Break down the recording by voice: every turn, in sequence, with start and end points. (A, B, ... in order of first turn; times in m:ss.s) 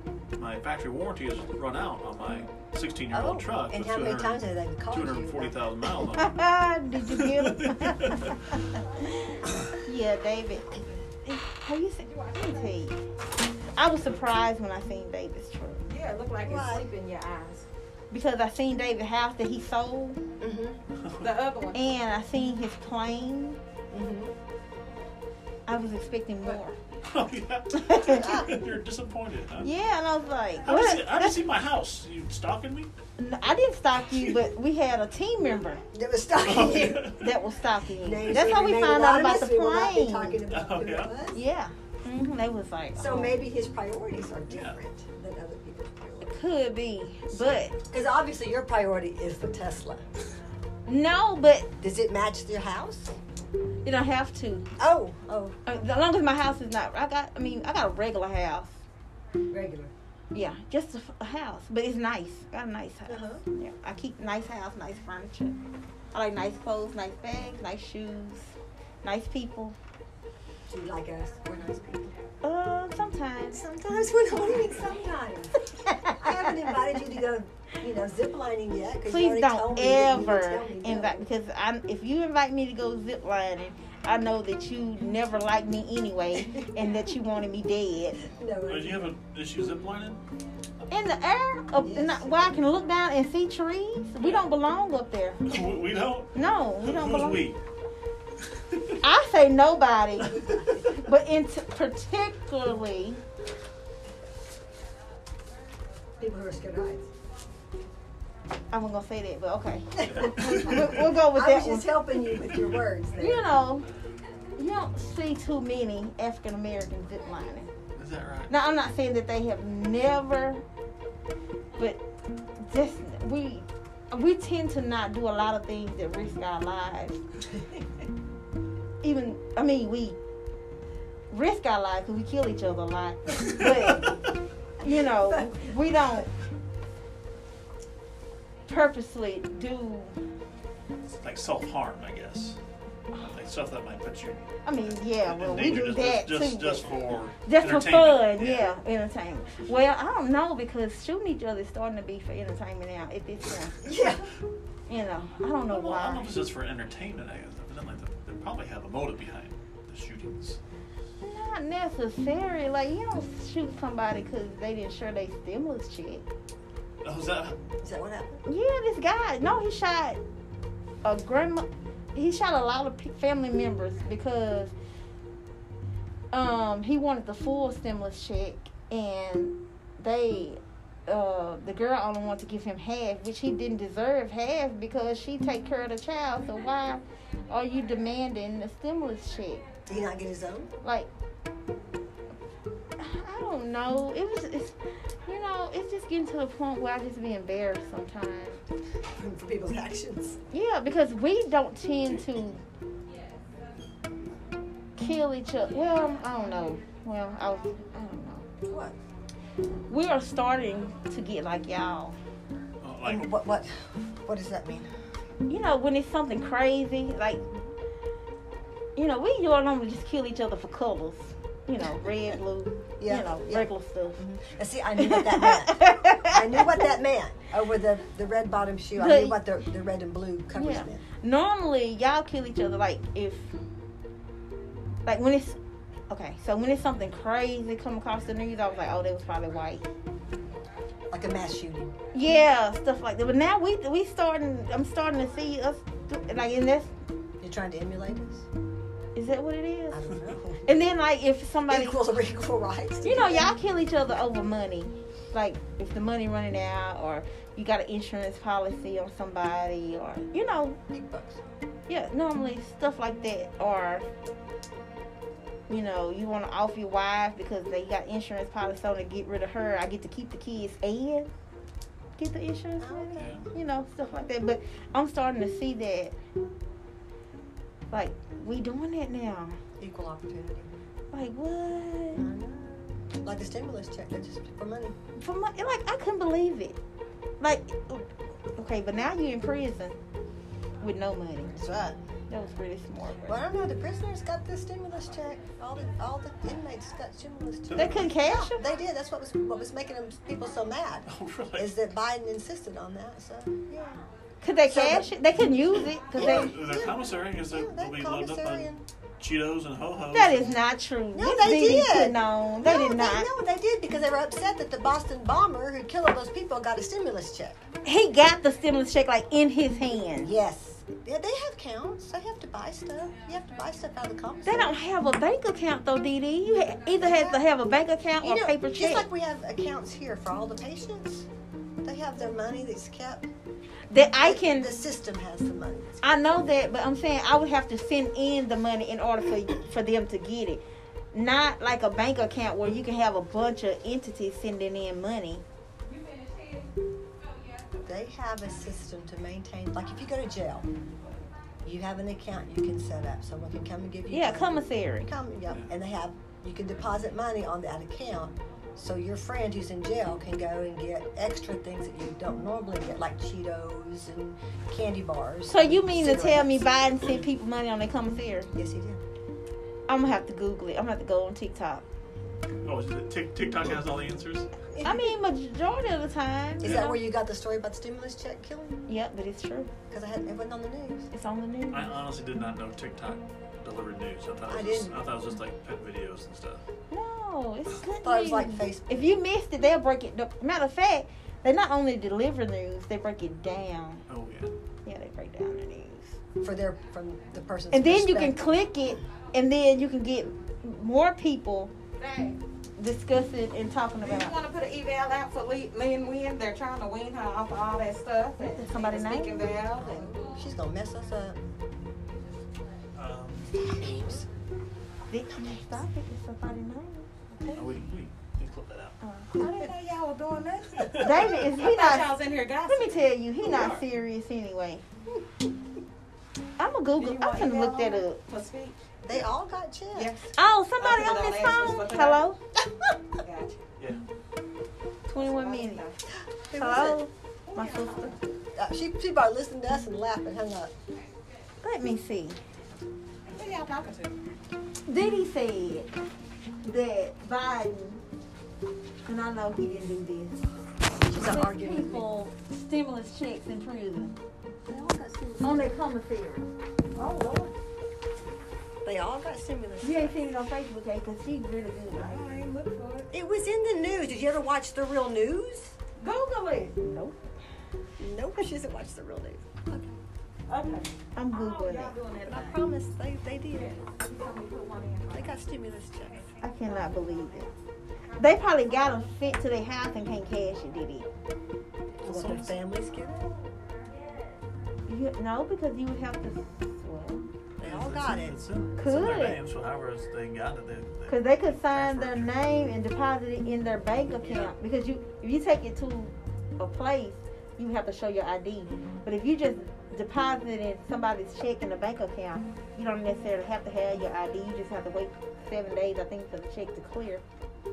0:00.4-0:06.4 A
0:03.1-0:05.7 B
0:06.1-0:13.0 C
0:07.1-0:08.4 A
0:12.0-0:12.8 D
0:13.7-0:15.8 C
0:15.8-0:17.7 D
0:16.4-0:16.9 B
0:18.1-0:20.2 C
0:20.4-0:20.8 B
0:21.0-0:21.4 A
0:21.2-0:21.8 D
0:21.7-0:23.6 C
0:23.9-0:24.3 B
0:25.7-0:26.8 C
0:27.1-0:29.7 A
0:27.7-0:28.4 C
0:28.1-0:28.5 B
0:29.6-0:31.4 C
0:30.6-0:32.9 A
0:33.2-0:35.8 C
0:35.9-0:37.1 B
0:36.4-0:37.3 A
0:37.1-0:40.4 C
0:38.0-0:41.4 B
0:40.5-0:41.1 A
0:41.3-0:43.4 C
0:42.9-0:46.4 B
0:44.5-0:44.8 A
0:46.2-0:47.7 C
0:47.9-0:50.0 B
0:50.8-0:51.7 C
0:51.8-0:53.2 B
0:53.8-0:54.7 C
0:54.8-0:55.6 B
0:55.6-0:58.8 C
0:59.5-0:59.9 B
1:00.3-1:05.6 C
1:03.1-1:03.4 B
1:06.1-1:09.8 C
1:10.7-1:12.1 B
1:12.4-1:13.6 C
1:13.5-1:21.3 B
1:15.9-1:16.2 C
1:19.1-1:28.3 C
1:26.4-1:26.7 B
1:28.2-1:29.1 B
1:28.6-1:30.2 A
1:30.9-1:35.7 C
1:31.8-1:32.6 B
1:35.5-1:37.6 A
1:36.3-1:37.5 C
1:38.6-1:39.0 A
1:39.0-1:43.2 C
1:46.2-1:47.1 B
1:48.7-1:52.0 C
1:50.0-1:53.5 B
1:50.1-1:50.9 A
1:53.2-1:53.8 C
1:54.6-1:57.7 C
1:57.9-1:58.5 A
1:58.5-2:00.6 C
2:02.6-2:07.2 C
2:09.0-2:10.2 C
2:11.3-2:14.2 C
2:14.8-2:16.3 C
2:14.8-2:15.7 B
2:18.7-2:20.2 C
2:21.1-2:22.6 A
2:23.2-2:28.7 A
2:24.6-2:33.8 C
2:33.8-2:34.3 B
2:34.9-2:36.3 C
2:35.7-2:40.6 A
2:41.2-2:46.2 C
2:47.0-2:47.6 A
2:47.8-2:48.4 B
2:48.4-2:50.2 C
2:51.0-2:54.7 C
2:56.3-3:09.6 C
3:09.9-3:10.7 B
3:10.8-3:11.1 C
3:13.0-3:18.6 C
3:19.1-3:20.4 B
3:20.5-3:22.6 C
3:25.0-3:28.5 C
3:28.6-3:28.9 B
3:29.9-3:32.2 C
3:32.8-3:33.3 A
3:33.0-3:34.9 B
3:35.5-3:37.5 C
3:39.0-3:44.2 C
3:43.0-3:51.0 B
3:45.0-3:46.8 C
3:49.0-3:49.4 C
3:50.5-3:53.6 C
3:55.0-3:55.6 C
3:56.1-3:59.8 C
4:01.1-4:01.9 B
4:02.1-4:06.9 C
4:07.4-4:08.5 B
4:09.1-4:12.0 C
4:09.9-4:10.7 B
4:11.7-4:13.5 B
4:13.0-4:20.8 C
4:20.9-4:21.4 B
4:21.9-4:24.0 C
4:25.7-4:31.3 C
4:32.2-4:36.2 C
4:32.8-4:33.4 B
4:33.2-4:33.4 A
4:37.9-4:39.6 C
4:39.8-4:40.8 B
4:41.1-4:42.2 C
4:42.1-4:45.0 B
4:45.2-4:46.8 C
4:47.4-4:50.0 C
4:50.8-4:51.6 C
4:51.5-4:52.0 B
4:52.3-4:53.4 C
4:53.2-5:04.0 B
4:57.7-4:58.1 A
4:57.7-4:58.6 C
5:01.0-5:01.8 A
5:04.4-5:06.5 C
5:04.6-5:05.1 B
5:06.1-5:08.8 B
5:06.1-5:10.6 A
5:10.1-5:13.3 C
5:11.1-5:17.6 B
5:17.8-5:20.3 C
5:20.2-5:24.8 B
5:24.4-5:29.1 C
5:27.0-5:31.3 B
5:31.8-5:33.3 B
5:33.9-5:34.7 C
5:34.2-5:36.0 B
5:36.0-5:40.6 C
5:41.1-5:45.4 C
5:45.9-5:46.7 D
5:47.8-5:50.7 B
5:51.6-6:06.9 B
5:54.1-5:55.1 C
6:05.5-6:08.5 C
6:08.5-6:09.0 B
6:09.9-6:11.8 C
6:12.6-6:14.5 A
6:14.7-6:15.1 B
6:14.8-6:17.0 C
6:16.6-6:18.8 B
6:18.9-6:19.7 C
6:19.9-6:21.1 B
6:21.1-6:21.9 C
6:21.7-6:26.6 A
6:24.5-6:25.0 B
6:26.9-6:34.0 C
6:28.0-6:29.1 B
6:34.1-6:34.5 A
6:34.8-6:36.2 C
6:36.4-6:38.5 B
6:37.7-6:41.7 C
6:42.0-6:42.4 D
6:42.8-6:44.4 C
6:44.0-6:50.2 D
6:48.4-6:49.5 C
6:49.8-6:51.4 B
6:52.9-6:54.2 A
6:53.6-6:54.2 B
6:55.1-6:57.7 C
6:57.5-6:59.0 A
6:59.0-6:59.7 C
6:59.3-7:03.1 D
7:00.8-7:01.3 A
7:00.9-7:04.8 C
7:03.4-7:03.8 A
7:06.6-7:08.2 C
7:07.0-7:08.8 D
7:09.0-7:10.2 B
7:09.9-7:12.2 D
7:10.3-7:12.4 C
7:13.2-7:13.6 D
7:15.1-7:15.9 C
7:15.1-7:16.0 D
7:16.3-7:17.0 B
7:16.6-7:18.1 C
7:17.5-7:18.2 D
7:18.5-7:20.7 B
7:21.6-7:22.4 C
7:23.3-7:24.1 D
7:24.8-7:26.0 C
7:26.6-7:28.0 C
7:29.0-7:30.4 C
7:31.0-7:32.1 B
7:31.1-7:34.1 C
7:34.7-7:35.7 B
7:35.4-7:36.5 C
7:36.9-7:37.5 D
7:38.8-7:40.2 B
7:39.8-7:42.2 C
7:41.9-7:43.1 D
7:43.1-7:45.8 B
7:46.0-7:46.8 D
7:46.8-7:47.2 C
7:48.0-7:50.0 B
7:50.5-7:52.6 D
7:51.1-7:52.0 C
7:52.2-7:53.8 B
7:53.5-7:55.3 D
7:55.1-7:56.3 B
7:56.4-7:57.5 C
7:58.2-8:01.1 C
8:02.0-8:03.3 B
8:02.0-8:02.6 A
8:04.9-8:07.2 C
8:07.6-8:08.4 B
8:07.6-8:12.3 A
8:08.8-8:09.4 C
8:11.1-8:27.2 C
8:14.2-8:14.5 B